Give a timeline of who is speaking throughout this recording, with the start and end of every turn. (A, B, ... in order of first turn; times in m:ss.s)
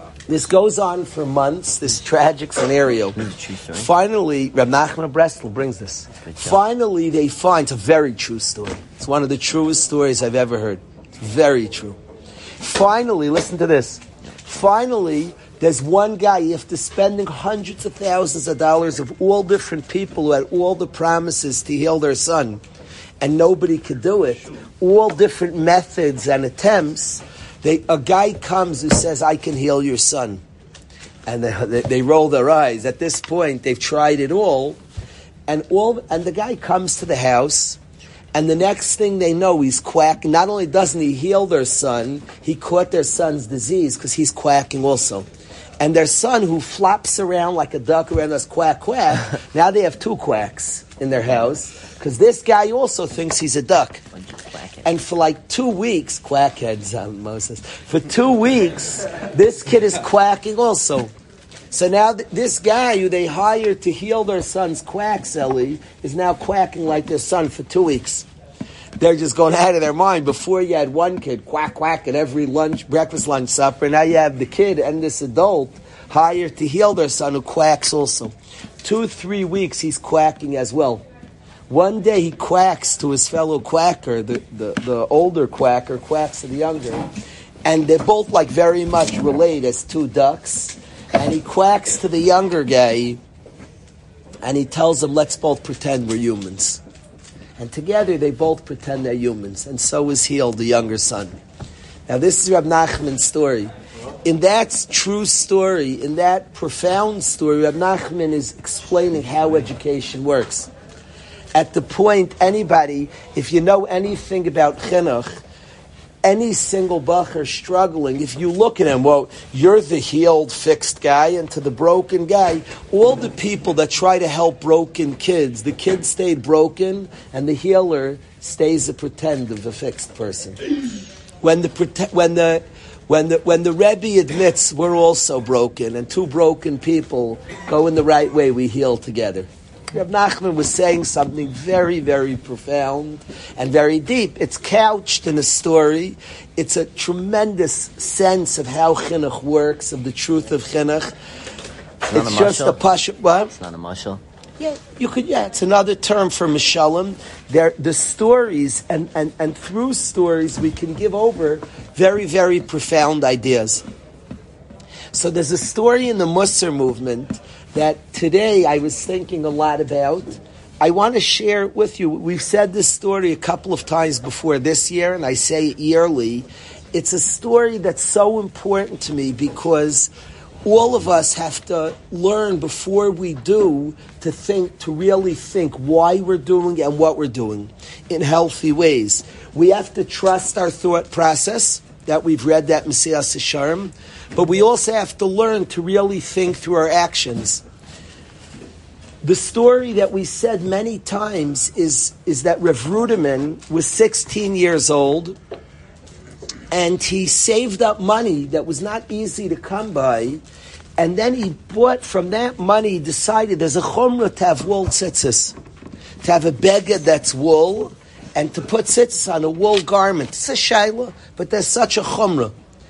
0:00.3-0:03.2 A
0:03.2-0:03.9 B
0:03.8-0:12.0 A
0:06.2-0:06.6 B
0:12.6-0:22.6 A
0:23.2-0:30.4 A
0:31.2-0:34.8 A
0:35.5-0:37.8 A
0:38.3-0:45.2 A
0:45.8-0:54.0 A
0:54.1-0:54.9 B
0:54.8-1:01.1 A
1:01.7-1:08.2 A
1:09.0-1:21.0 A
1:21.7-1:27.0 A
1:27.6-1:33.2 A
1:34.4-1:36.8 A
1:37.6-1:41.3 A
1:42.1-1:43.7 A
1:44.2-1:50.7 A
1:51.5-1:55.4 A
1:56.2-2:10.6 A
2:11.4-2:31.1 A
2:32.0-2:32.8 B
2:32.0-2:33.5 A
2:33.4-2:34.2 B
2:34.6-2:43.8 A
2:45.1-3:00.1 A
3:00.6-3:17.6 A
3:19.2-3:25.4 A
3:26.7-3:30.4 A
3:31.0-3:35.5 A
3:36.2-3:42.5 A